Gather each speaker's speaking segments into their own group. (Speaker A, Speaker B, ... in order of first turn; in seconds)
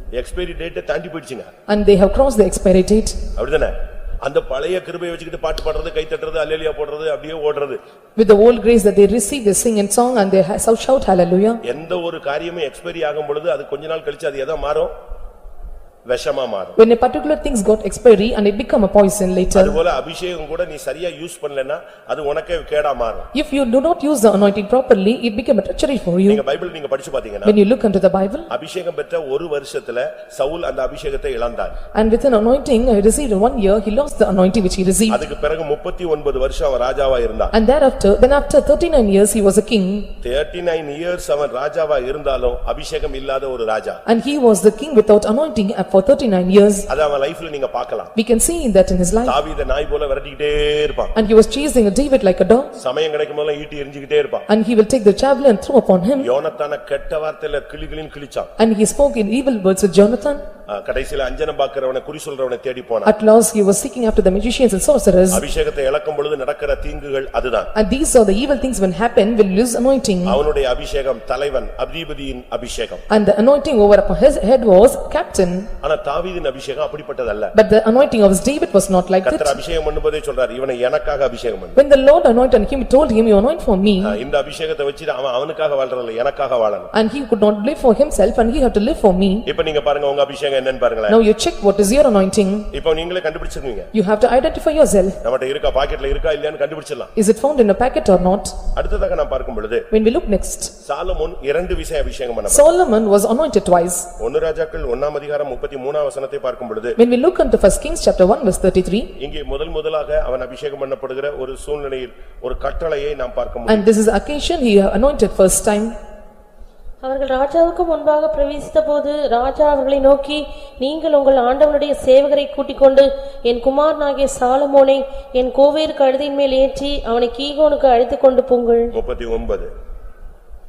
Speaker A: 0.1-1.5, 3.4-7.8, 11.6-14.9, 16.1-16.8, 19.5-23.3, 26.3-27.6, 28.5-31.8, 35.1-37.5, 40.2-44.0, 46.9-48.1, 49.2-51.1, 52.8-54.5, 56.2-58.5, 60.7-63.1, 65.3-67.7, 70.2-73.0, 75.8-77.5, 79.2-81.8, 84.0-86.9, 89.5-91.2, 92.7-93.9, 95.2-97.1, 98.7-99.9, 100.8-102.7, 104.2-107.0, 109.2-113.9, 128.9-129.7
Speaker B: 1.7-3.2, 8.2-11.6, 16.8-19.8, 23.3-26.4, 27.4-28.5, 31.9-35.2, 37.5-40.1, 44.1-46.9, 48.2-49.4, 51.1-52.7, 54.5-56.3, 58.6-60.5, 63.0-65.4, 67.8-70.4, 73.1-75.7, 77.5-79.6, 81.8-84.2, 86.9-89.5, 91.1-92.7, 93.9-95.2, 97.2-98.6, 99.9-100.7, 102.5-104.1, 107.0-109.1, 113.7-115.9
Speaker C: 117.0-128.9